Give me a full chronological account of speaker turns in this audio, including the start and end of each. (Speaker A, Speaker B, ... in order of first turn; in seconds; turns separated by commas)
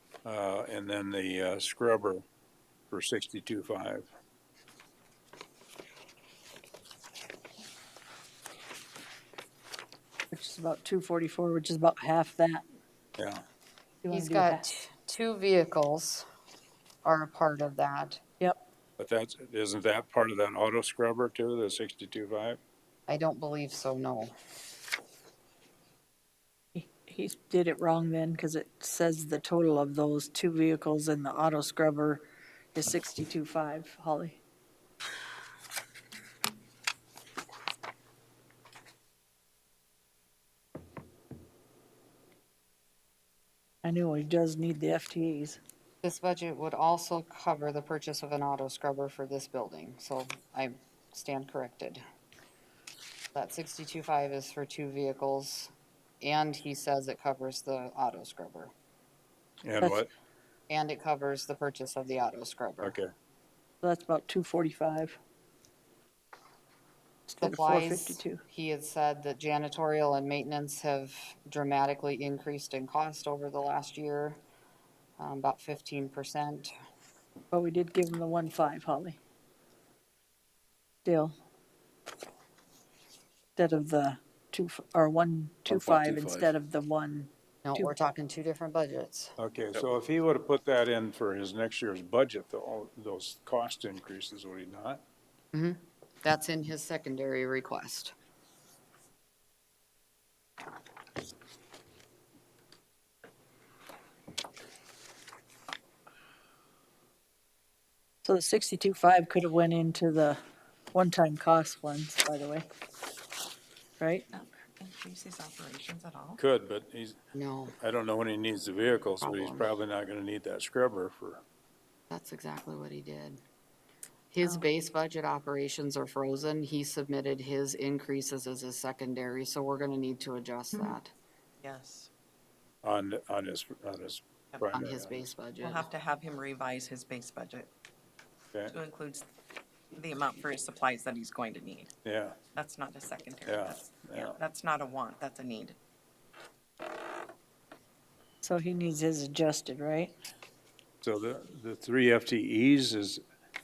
Speaker A: 0.2-2.2, Speaker A: 2.9-4.1, Speaker B: 10.3-12.6, Speaker A: 13.2-13.4, Speaker B: 14.0-14.7, Speaker C: 14.1-16.3, Speaker C: 17.0-18.2, Speaker A: 19.0-22.6, Speaker C: 23.1-24.3, Speaker B: 26.7-34.4, Speaker B: 43.8-45.6, Speaker C: 46.0-52.0, Speaker C: 53.3-58.7, Speaker A: 59.6-60.1, Speaker B: 59.8-60.0, Speaker C: 60.7-63.0, Speaker A: 62.8-63.1, Speaker B: 63.8-65.2, Speaker B: 67.3-68.4, Speaker C: 67.4-74.4, Speaker C: 75.2-76.7, Speaker B: 77.5-79.2, Speaker B: 81.0-81.3, Speaker B: 83.5-87.9, Speaker A: 85.7-86.5, Speaker C: 87.6-89.3, Speaker A: 89.4-95.0, Speaker C: 95.5-98.1, Speaker B: 108.2-110.4, Speaker B: 110.9-112.7, Speaker B: 114.0-114.2, Speaker D: 114.3-116.4, Speaker A: 116.4-117.2, Speaker C: 117.3-117.7, Speaker A: 117.8-121.4, Speaker C: 119.2-119.7, Speaker C: 122.1-123.4, Speaker C: 124.3-131.1, Speaker D: 131.6-132.1, Speaker A: 132.8-135.3, Speaker C: 134.7-135.9, Speaker D: 135.6-137.7, Speaker D: 138.7-139.2, Speaker D: 139.9-141.9, Speaker A: 142.0-142.4, Speaker D: 142.5-145.8, Speaker A: 143.4-144.4, Speaker B: 148.4-150.2, Speaker A: 151.0-153.2